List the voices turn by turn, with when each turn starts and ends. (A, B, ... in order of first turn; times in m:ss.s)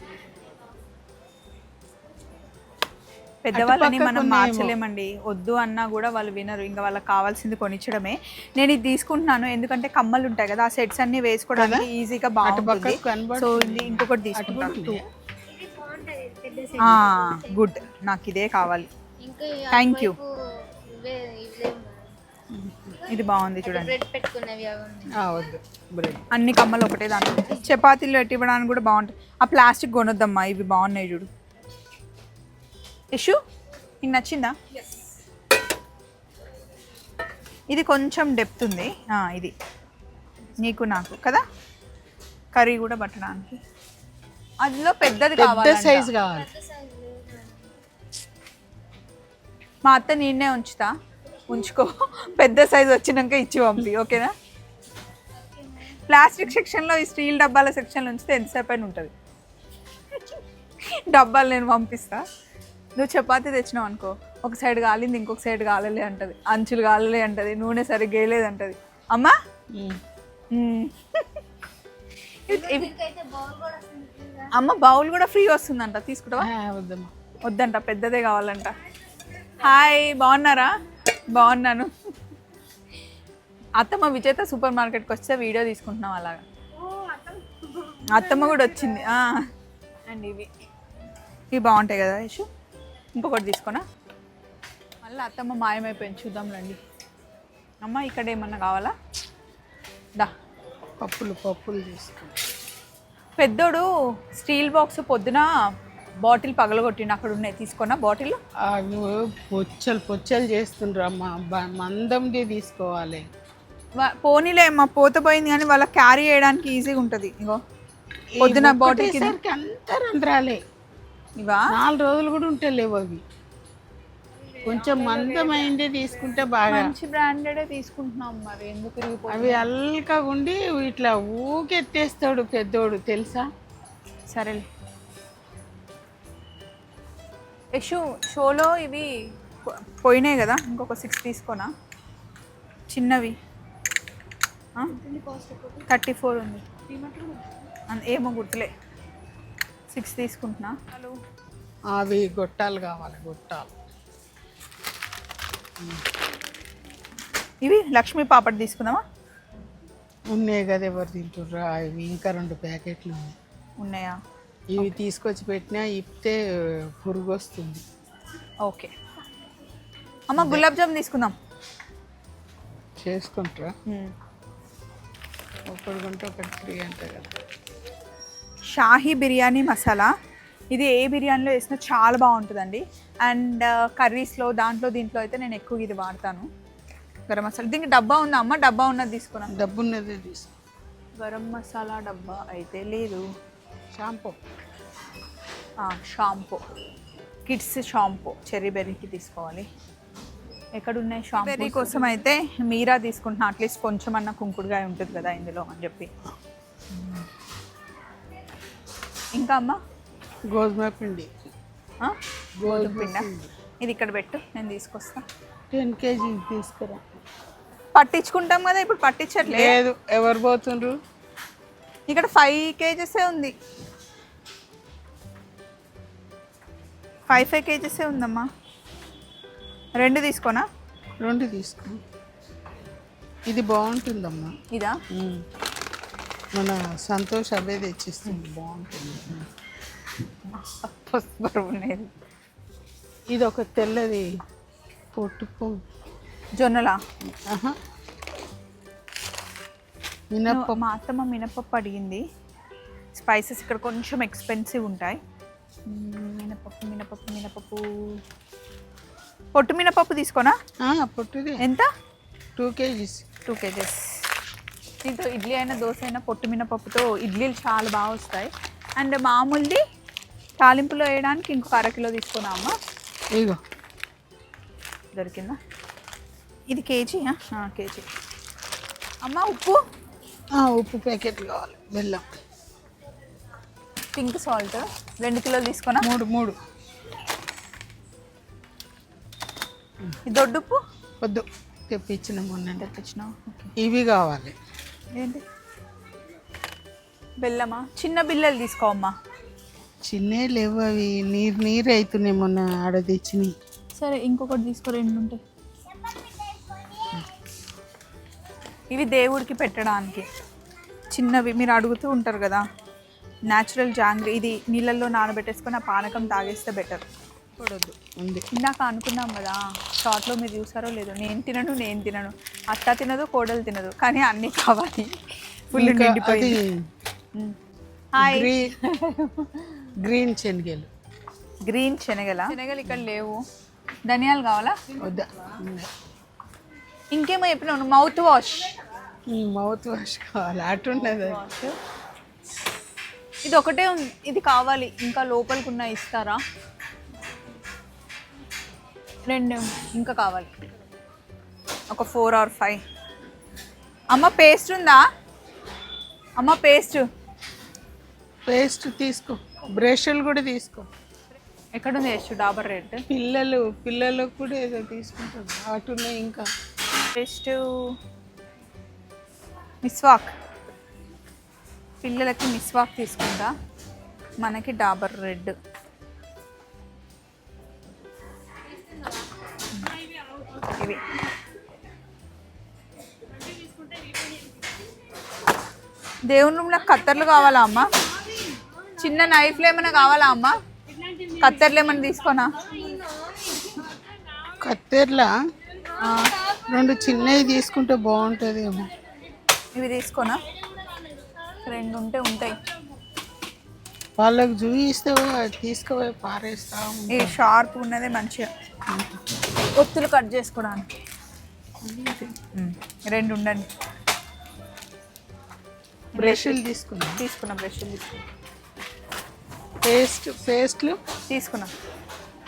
0:03.4-0:15.0 A
0:03.5-0:04.7 B
0:11.6-0:11.9 B
0:12.4-0:15.0 B
0:15.5-0:17.8 C
0:16.8-0:18.9 A
0:19.2-0:20.3 C
0:19.7-0:20.2 A
0:20.9-0:22.1 C
0:22.5-0:23.0 B
0:23.1-0:23.9 A
0:23.6-0:25.2 C
0:25.2-0:26.2 B
0:26.3-0:31.3 A
0:33.1-0:33.4 A
0:34.0-0:34.5 A
0:37.7-0:39.5 A
0:40.6-0:41.4 A
0:42.5-0:43.6 A
0:44.6-0:46.1 A
0:45.4-0:46.5 B
0:46.3-0:47.8 C
0:49.8-0:50.9 A
0:51.5-0:54.3 A
0:55.4-0:56.0 C
0:56.1-0:59.1 A
1:00.1-1:02.2 A
1:03.0-1:09.3 A
1:10.5-1:11.4 A
1:12.5-1:12.9 A
1:12.5-1:14.5 C
1:14.5-1:16.5 A
1:16.4-1:17.1 B
1:17.4-1:18.7 A
1:19.6-1:20.7 A
1:21.3-1:21.9 A
1:23.8-1:26.4 A
1:26.8-1:28.2 C
1:28.1-1:29.4 A
1:30.0-1:30.5 A
1:31.5-1:32.5 A
1:33.1-1:33.8 A
1:35.0-1:36.8 A
1:37.8-1:38.9 A
1:41.0-1:42.3 B
1:43.4-1:45.4 A
1:46.2-1:48.4 A
1:48.6-1:53.2 B
1:54.0-1:57.6 A
1:58.4-2:00.6 B
1:58.4-1:59.4 A
2:01.4-2:01.7 A
2:01.7-2:03.2 B
2:04.6-2:06.9 B
2:05.3-2:05.7 A
2:06.7-2:09.6 A
2:09.3-2:13.4 B
2:14.3-2:14.7 A
2:17.7-2:19.1 A
2:19.6-2:21.7 A
2:22.9-2:23.4 A
2:24.9-2:25.9 C
2:25.9-2:26.7 A
2:26.9-2:27.4 C
2:27.9-2:28.7 A
2:29.9-2:31.2 A
2:31.9-2:33.7 B
2:37.6-2:39.0 A
2:40.3-2:43.4 B
2:43.8-2:44.2 A
2:44.7-2:47.8 B
2:48.6-2:48.9 A
2:50.3-2:51.3 A
2:50.4-2:50.6 B
2:53.0-2:53.7 B
2:55.7-2:57.3 B
2:58.7-3:00.1 A
3:00.7-3:06.5 A
3:07.3-3:09.6 A
3:09.5-3:10.5 B
3:11.2-3:13.2 A
3:13.9-3:14.4 B
3:15.8-3:16.6 A
3:17.4-3:19.7 A
3:20.8-3:26.1 A
3:21.3-3:22.3 B
3:29.3-3:29.8 A
3:30.5-3:31.3 B
3:32.0-3:33.3 A
3:32.6-3:33.5 B
3:33.8-3:35.2 A
3:35.7-3:37.0 B
3:37.9-3:39.8 A
3:39.4-3:41.0 B
3:42.1-3:43.5 A
3:47.3-3:48.5 A
3:50.0-3:50.6 A
3:51.2-3:52.0 B
3:53.5-3:54.5 B
3:54.7-3:55.0 A
3:55.1-3:55.4 B
3:56.5-3:59.5 B
4:00.4-4:02.1 A
4:03.3-4:04.2 B
4:05.1-4:05.8 B
4:06.6-4:07.0 A
4:07.3-4:07.8 B
4:10.3-4:10.8 B
4:10.5-4:12.2 A
4:13.1-4:15.2 A
4:15.9-4:18.2 A
4:19.5-4:20.5 A
4:20.8-4:21.6 B
4:21.6-4:21.9 A
4:22.6-4:23.2 B
4:23.4-4:24.1 A
4:25.0-4:29.8 A
4:30.6-4:32.7 A
4:35.1-4:35.6 A
4:36.7-4:38.1 A
4:39.2-4:39.8 A
4:40.6-4:42.2 B
4:44.1-4:46.1 A
4:46.0-4:46.6 B
4:50.2-4:50.8 A
4:51.2-4:52.8 B
4:52.7-4:53.7 A
4:53.8-4:54.6 B
4:55.1-4:55.4 A
4:57.4-4:59.1 A
5:00.0-5:03.5 B
5:04.0-5:05.4 A
5:08.9-5:10.3 A
5:11.1-5:12.6 A
5:13.5-5:17.0 A
5:17.6-5:18.5 B
5:18.5-5:25.1 A
5:25.7-5:26.6 A
5:25.7-5:26.8 B
5:28.1-5:28.5 A
5:28.2-5:28.7 B
5:29.1-5:29.5 A
5:30.0-5:30.9 B
5:31.6-5:33.4 A
5:34.1-5:34.8 A
5:35.0-5:35.9 B
5:37.1-5:38.7 A
5:39.3-5:41.4 B
5:40.9-5:41.7 A
5:43.4-5:46.4 A
5:49.3-5:50.5 A
5:51.9-5:52.8 A
5:54.1-5:55.0 A
5:56.4-5:57.0 A
5:58.5-6:00.9 B
6:01.7-6:03.0 A
6:03.1-6:06.4 B
6:07.1-6:07.6 A
6:09.8-6:10.3 A
6:12.0-6:13.5 A
6:14.4-6:15.5 A
6:20.5-6:21.0 A
6:26.3-6:27.9 A
6:29.0-6:30.5 A
6:31.3-6:32.5 A
6:32.8-6:33.9 C
6:34.6-6:35.3 B
6:36.0-6:36.4 A
6:36.7-6:38.9 B
6:39.7-6:40.4 A
6:41.6-6:42.6 A
6:44.2-6:47.4 B
6:47.1-6:48.5 A
6:49.7-6:50.9 A
6:51.8-6:53.7 A
6:56.1-6:56.6 A
6:56.1-6:57.2 B
6:57.2-6:58.1 A
6:59.8-7:01.0 B
7:01.3-7:01.7 A